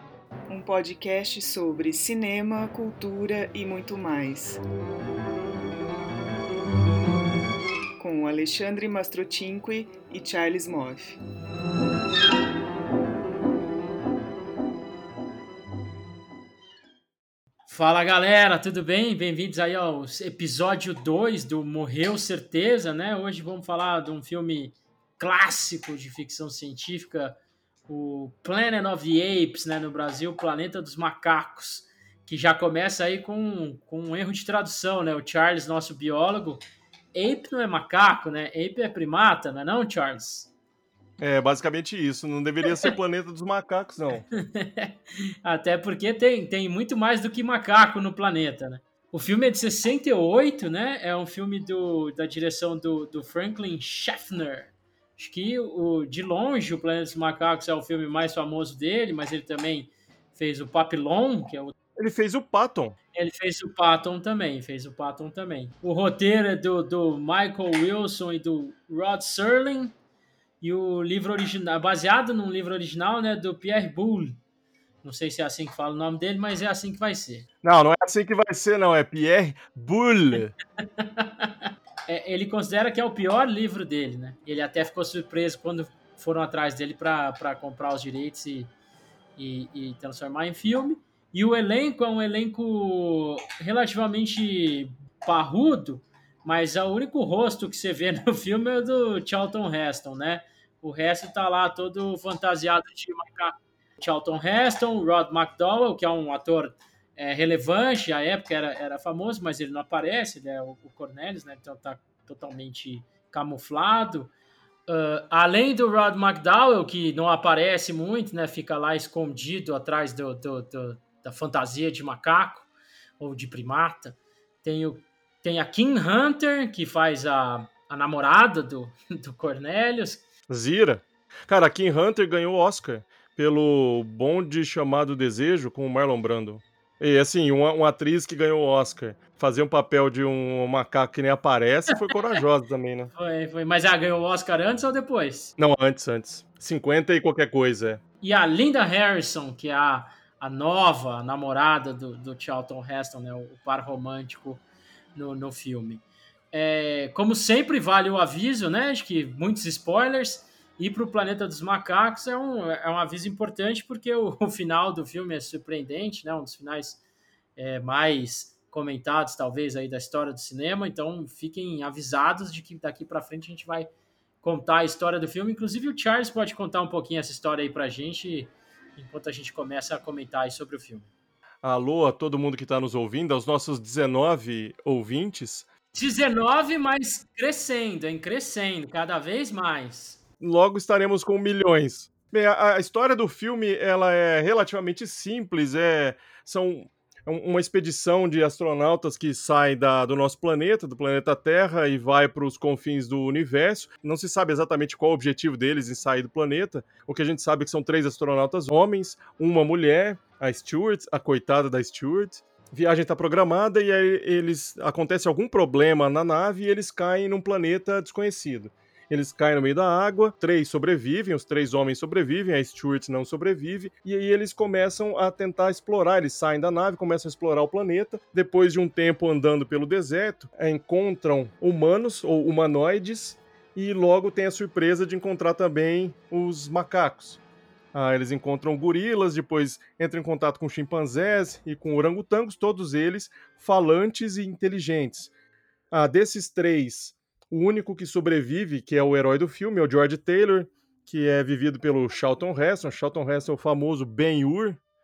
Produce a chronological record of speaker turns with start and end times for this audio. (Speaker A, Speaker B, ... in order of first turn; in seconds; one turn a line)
Speaker A: 0.5-4.6
Speaker A: 8.0-11.2
Speaker B: 17.7-36.6
Speaker B: 37.1-40.5
Speaker C: 41.2-44.2
Speaker B: 44.4-61.7
Speaker C: 62.0-63.0
Speaker B: 63.1-69.9
Speaker B: 70.6-74.4
Speaker B: 75.0-77.5
Speaker C: 77.6-80.5
Speaker B: 81.0-81.5
Speaker B: 82.1-88.7
Speaker B: 89.4-114.3
Speaker B: 114.9-122.7
Speaker B: 123.2-130.2
Speaker C: 130.5-143.1
Speaker B: 143.1-145.5
Speaker C: 145.6-148.0
Speaker B: 148.2-154.6
Speaker B: 155.1-167.0
Speaker B: 167.6-173.9
Speaker B: 174.4-181.1
Speaker C: 181.6-185.7
Speaker B: 185.9-190.2
Speaker C: 190.4-237.4
Speaker C: 237.9-245.3
Speaker C: 245.9-254.8